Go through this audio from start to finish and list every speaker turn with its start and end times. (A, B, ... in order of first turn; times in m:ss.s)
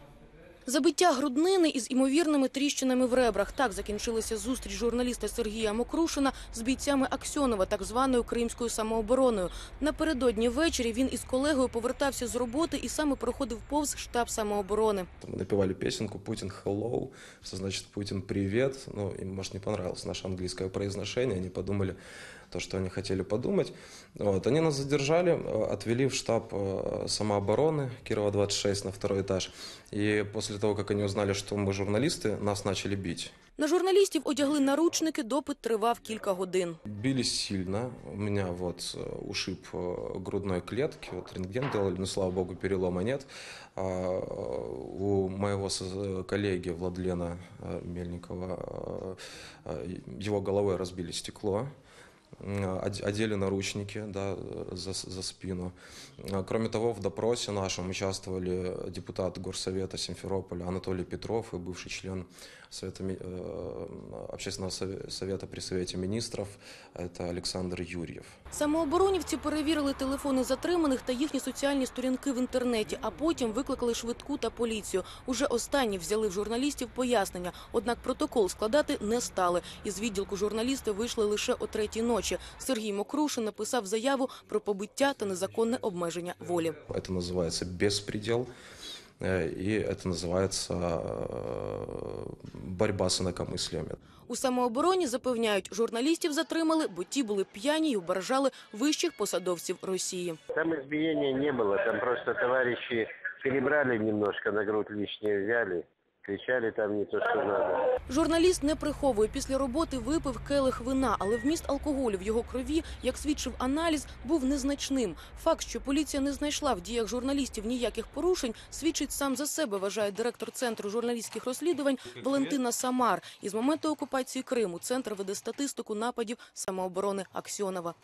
0:00.7-0:15.1 A
0:15.2-0:22.0 B
0:22.5-0:33.3 B
0:33.6-0:36.8 A
0:36.9-0:51.7 B
0:52.4-1:08.4 B
1:08.5-1:26.8 A
1:26.9-1:28.5 B
1:29.2-1:34.0 B
1:34.3-1:40.4 A
1:40.5-1:47.9 C
1:48.1-2:08.0 A